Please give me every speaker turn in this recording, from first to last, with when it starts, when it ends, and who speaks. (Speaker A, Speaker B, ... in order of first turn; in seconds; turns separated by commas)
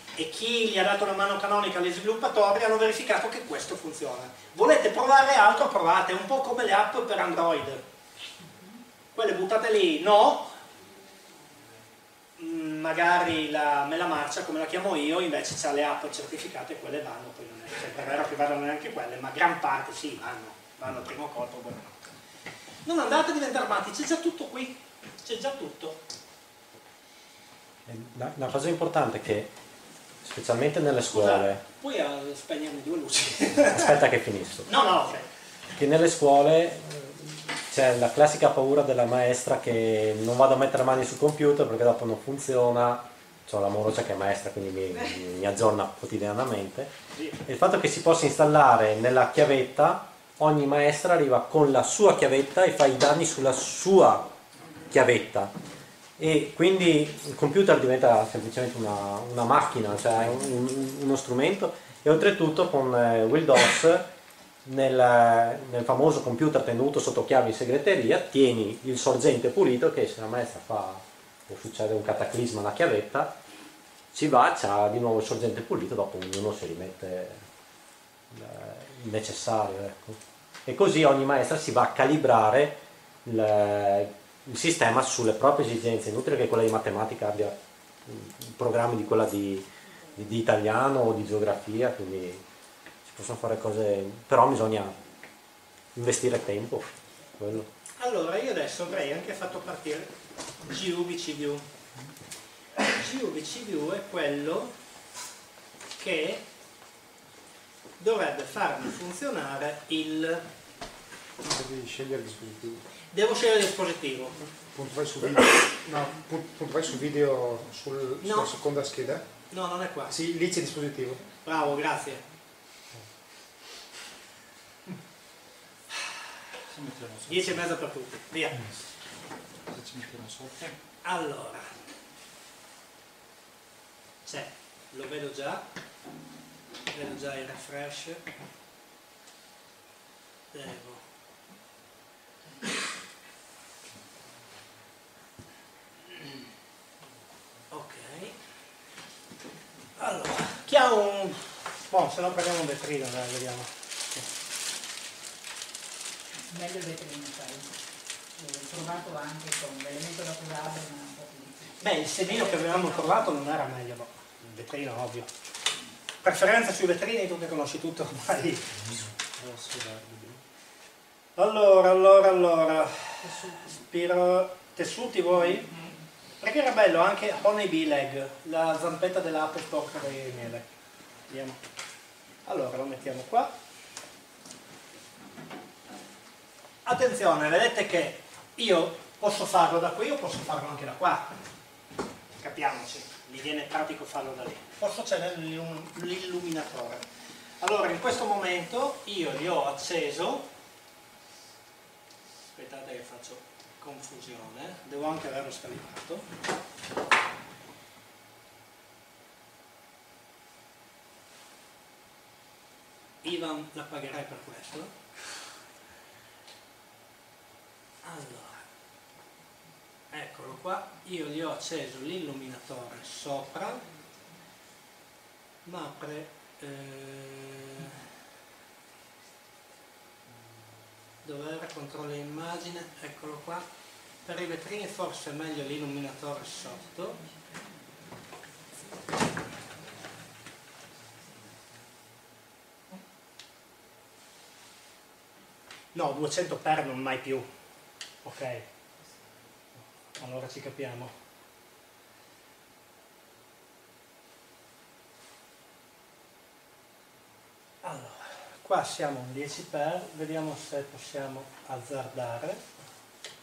Speaker A: 0.1-7.8, Speaker A: 9.1-10.6, Speaker A: 12.4-22.1, Speaker A: 22.9-26.0, Speaker B: 27.9-29.5, Speaker B: 30.2-31.6, Speaker A: 31.1-33.9, Speaker B: 33.7-34.7, Speaker A: 34.7-35.3, Speaker B: 35.7-46.9, Speaker B: 47.4-54.2, Speaker B: 54.9-55.5, Speaker B: 56.2-64.0, Speaker B: 64.6-73.3, Speaker B: 74.1-77.4, Speaker B: 78.3-92.4, Speaker B: 93.0-95.0, Speaker B: 95.9-97.7, Speaker A: 98.0-100.1, Speaker A: 100.6-101.6, Speaker A: 102.8-104.7, Speaker A: 106.0-106.4, Speaker A: 108.0-110.4, Speaker C: 111.4-112.8, Speaker A: 113.1-114.4, Speaker C: 114.6-119.2, Speaker A: 118.2-118.5, Speaker A: 119.5-120.1, Speaker C: 120.1-121.3, Speaker A: 121.4-122.2, Speaker D: 126.7-127.6, Speaker A: 127.3-128.7, Speaker D: 129.7-130.7, Speaker A: 131.0-131.7, Speaker A: 134.2-135.6, Speaker A: 136.9-138.2, Speaker A: 140.5-141.0, Speaker A: 147.7-148.3, Speaker A: 150.0-153.7, Speaker E: 156.5-157.7, Speaker E: 158.4-163.5, Speaker A: 161.8-165.3, Speaker A: 166.2-168.8, Speaker D: 169.4-170.4, Speaker A: 171.4-175.7, Speaker A: 176.4-180.7, Speaker A: 181.3-181.6, Speaker A: 182.4-183.5, Speaker A: 186.8-191.3, Speaker A: 192.4-197.0, Speaker A: 197.6-200.5, Speaker A: 202.6-206.3, Speaker A: 213.2-214.9, Speaker A: 218.0-218.6, Speaker A: 220.1-223.8, Speaker A: 225.7-228.0, Speaker A: 231.2-233.6, Speaker A: 234.2-237.2, Speaker A: 245.9-247.5, Speaker A: 248.2-248.7, Speaker A: 250.2-251.1, Speaker A: 257.8-262.6